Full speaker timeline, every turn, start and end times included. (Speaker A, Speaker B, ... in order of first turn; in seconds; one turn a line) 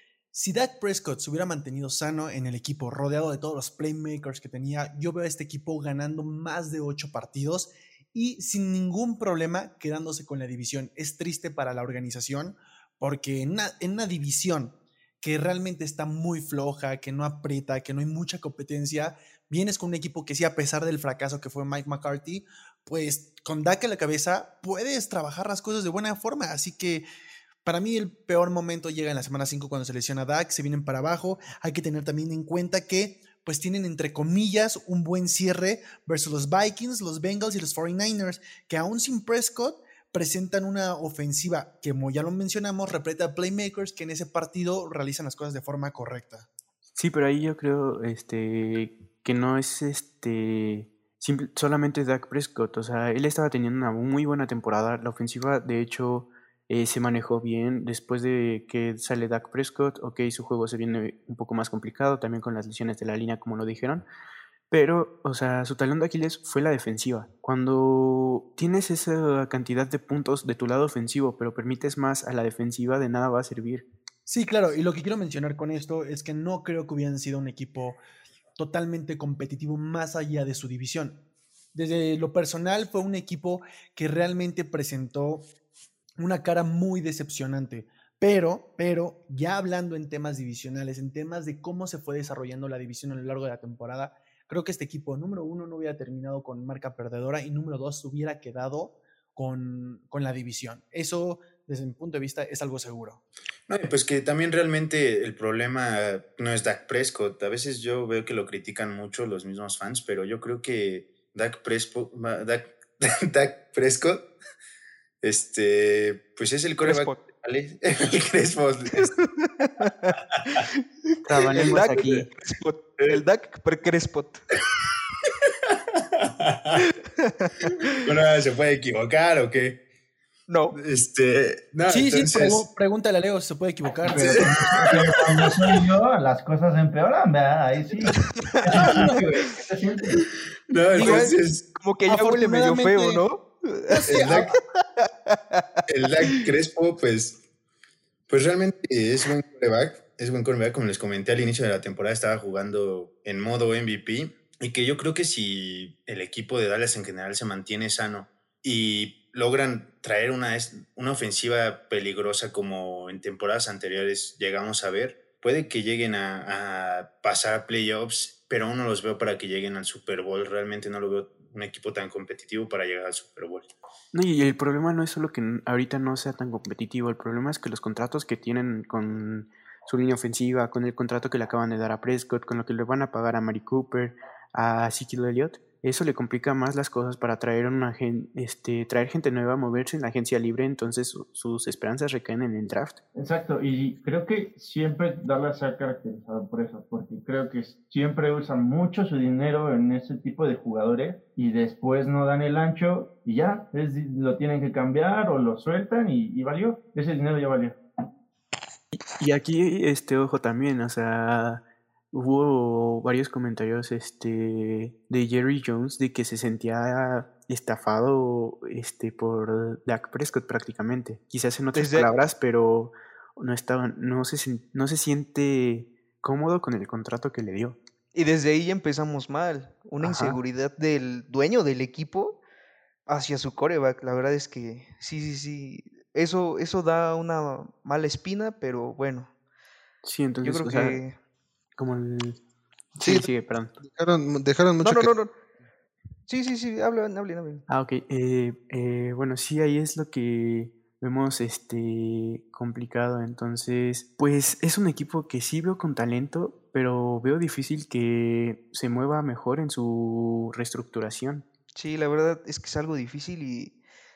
Speaker A: 0.3-27.1
Speaker A: 27.6-46.5
Speaker B: 47.0-64.1
Speaker B: 64.7-73.8
Speaker A: 74.3-78.0
Speaker A: 78.6-81.2
Speaker A: 81.7-85.5
Speaker A: 86.2-103.2
Speaker C: 103.7-114.3
Speaker C: 115.2-119.1
Speaker D: 116.8-117.2
Speaker D: 119.0-124.4
Speaker B: 121.3-122.3
Speaker C: 126.2-126.8
Speaker D: 127.2-128.1
Speaker C: 127.9-129.8
Speaker D: 130.5-130.8
Speaker C: 130.7-132.6
Speaker A: 131.9-134.5
Speaker E: 134.1-140.2
Speaker C: 134.1-135.7
Speaker D: 138.2-139.2
Speaker C: 138.7-139.2
Speaker C: 140.7-141.6
Speaker A: 140.9-141.3
Speaker D: 140.9-144.4
Speaker A: 142.1-143.2
Speaker A: 144.1-144.5
Speaker C: 144.1-144.6
Speaker D: 145.0-145.7
Speaker C: 145.9-147.4
Speaker C: 148.3-173.7
Speaker B: 174.1-193.0
Speaker E: 193.2-207.8
Speaker B: 208.9-227.8
Speaker D: 221.8-222.1
Speaker D: 228.1-232.4
Speaker B: 230.0-230.4
Speaker D: 233.1-239.3
Speaker B: 240.0-241.0
Speaker D: 240.4-241.2
Speaker B: 241.8-242.4
Speaker B: 242.9-243.7
Speaker F: 243.0-245.1
Speaker D: 244.8-245.3
Speaker D: 246.3-247.6
Speaker B: 247.7-261.4
Speaker D: 261.8-263.8